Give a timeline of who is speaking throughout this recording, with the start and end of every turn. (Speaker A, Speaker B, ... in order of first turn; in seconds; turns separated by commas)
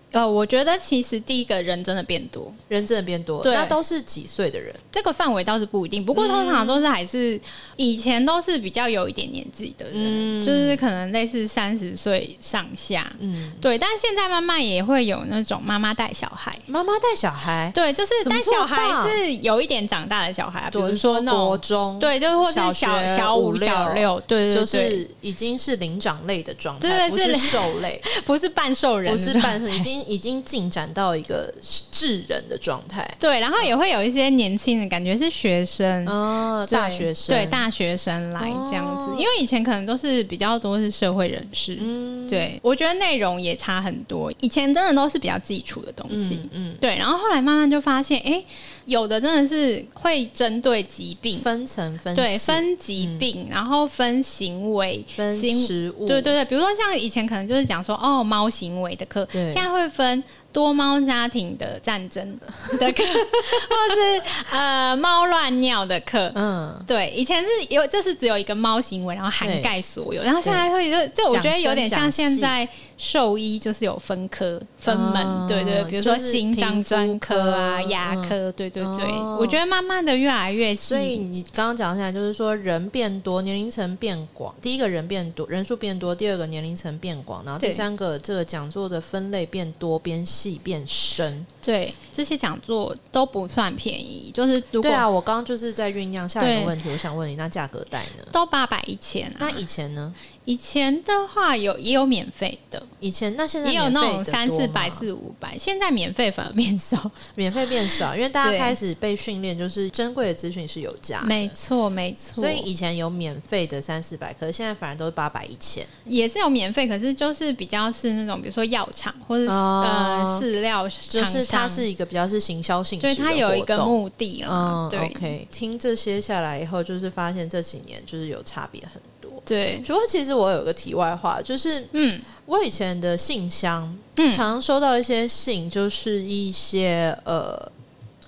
Speaker A: 0.1-2.6, Speaker B: 2.7-4.8, Speaker A: 3.4-3.8, Speaker A: 4.9-16.6, Speaker B: 6.1-6.8, Speaker B: 9.9-10.8, Speaker B: 13.2-13.7, Speaker B: 16.7-19.2, Speaker A: 17.7-25.0, Speaker B: 20.7-28.1, Speaker A: 26.8-29.9, Speaker B: 29.1-33.7, Speaker A: 33.2-36.2, Speaker B: 36.1-37.7, Speaker A: 36.7-51.5, Speaker B: 38.4-39.3, Speaker B: 41.8-42.5, Speaker B: 46.1-46.8, Speaker B: 51.4-53.3, Speaker A: 52.1-81.2, Speaker B: 55.1-56.4, Speaker B: 59.3-59.7, Speaker B: 63.0-63.7, Speaker B: 66.3-66.9, Speaker B: 69.4-69.7, Speaker B: 70.4-70.7, Speaker B: 71.3-72.5, Speaker B: 74.8-79.6, Speaker B: 80.8-91.5, Speaker A: 87.6-87.8, Speaker A: 91.6-95.1, Speaker B: 94.8-98.3, Speaker A: 96.4-96.8, Speaker A: 98.3-99.7, Speaker B: 99.4-100.2, Speaker A: 100.5-102.9, Speaker B: 103.0-105.1, Speaker A: 103.6-107.3, Speaker B: 107.3-111.5, Speaker A: 107.8-108.8, Speaker A: 111.2-112.7, Speaker B: 112.4-115.9, Speaker A: 116.1-121.9, Speaker B: 119.5-120.5, Speaker B: 121.1-131.9, Speaker A: 123.0-125.3, Speaker A: 129.5-129.9, Speaker A: 131.9-132.3, Speaker B: 132.4-137.7, Speaker A: 134.2-134.4